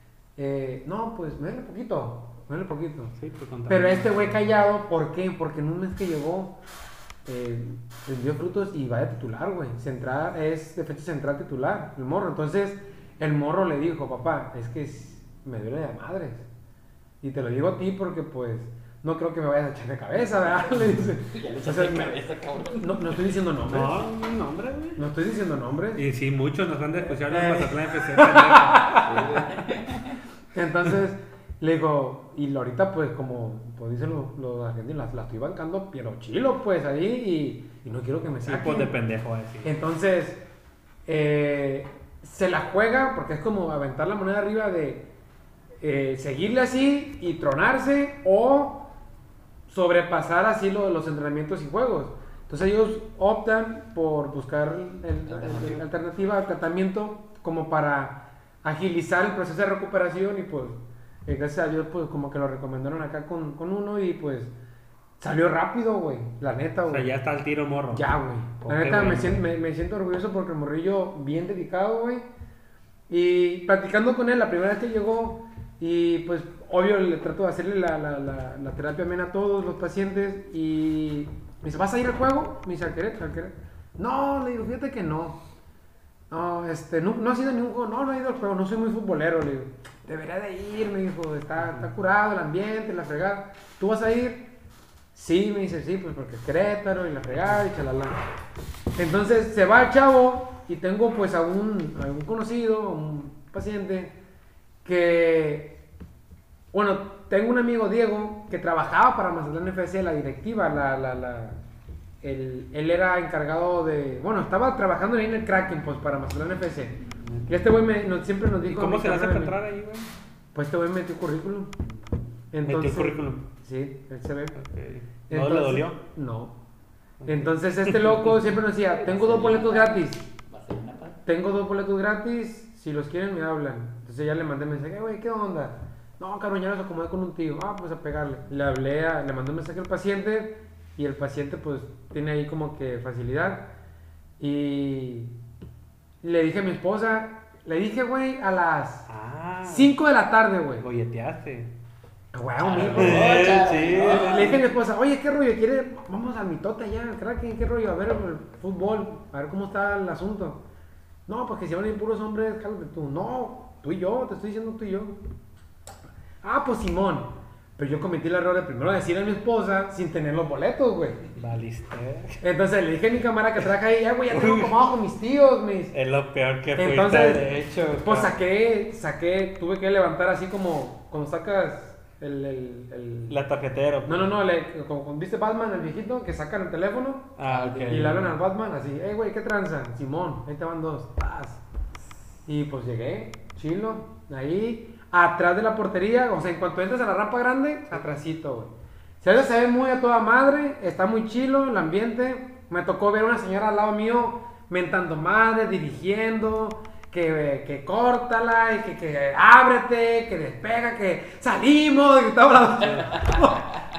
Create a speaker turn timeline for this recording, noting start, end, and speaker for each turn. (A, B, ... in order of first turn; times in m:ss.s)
0:00.4-0:03.2 A
0:03.2-0:04.5 B
0:03.7-0:06.6 A
0:07.3-0:16.5 A
0:17.2-0:22.2 A
0:21.3-0:23.2 C
0:22.8-0:24.0 A
0:23.7-0:25.0 B
0:25.0-0:26.0 A
0:26.0-0:29.0 B
0:27.3-0:29.4 A
0:28.9-0:30.2 C
0:30.5-0:38.9 A
0:38.4-0:39.7 B
0:39.6-0:40.4 A
0:41.1-0:45.0 A
0:45.8-0:48.8 A
0:49.7-1:04.5 A
0:55.3-0:55.8 C
1:05.2-1:07.1 A
1:06.9-1:08.1 B
1:07.9-1:12.3 A
1:08.6-1:09.4 B
1:13.1-1:25.4 A
1:26.3-1:34.5 A
1:35.1-1:38.2 A
1:39.0-1:44.1 A
1:44.8-1:45.7 A
1:46.7-1:51.6 A
1:52.2-1:59.6 A
1:58.7-2:00.1 B
2:00.5-2:01.7 A
2:02.5-2:04.6 A
2:02.6-2:03.4 B
2:04.6-2:06.0 B
2:05.3-2:06.5 A
2:07.2-2:08.4 B
2:07.3-2:10.2 A
2:09.0-2:11.2 C
2:11.3-2:23.7 A
2:24.4-2:25.3 A
2:26.2-2:29.1 A
2:29.1-2:29.9 B
2:29.7-2:30.9 A
2:30.8-2:31.7 B
2:32.3-2:40.6 A
2:32.6-2:34.6 C
2:32.9-2:34.6 B
2:41.3-2:45.2 A
2:46.4-2:51.2 A
2:51.4-2:52.4 B
2:52.4-2:55.9 A
2:54.3-2:54.8 B
2:55.9-2:58.3 B
2:56.8-3:03.4 A
3:03.3-3:04.3 B
3:04.1-3:11.6 A
3:07.4-3:08.3 B
3:12.5-3:33.8 A
3:32.9-3:33.8 C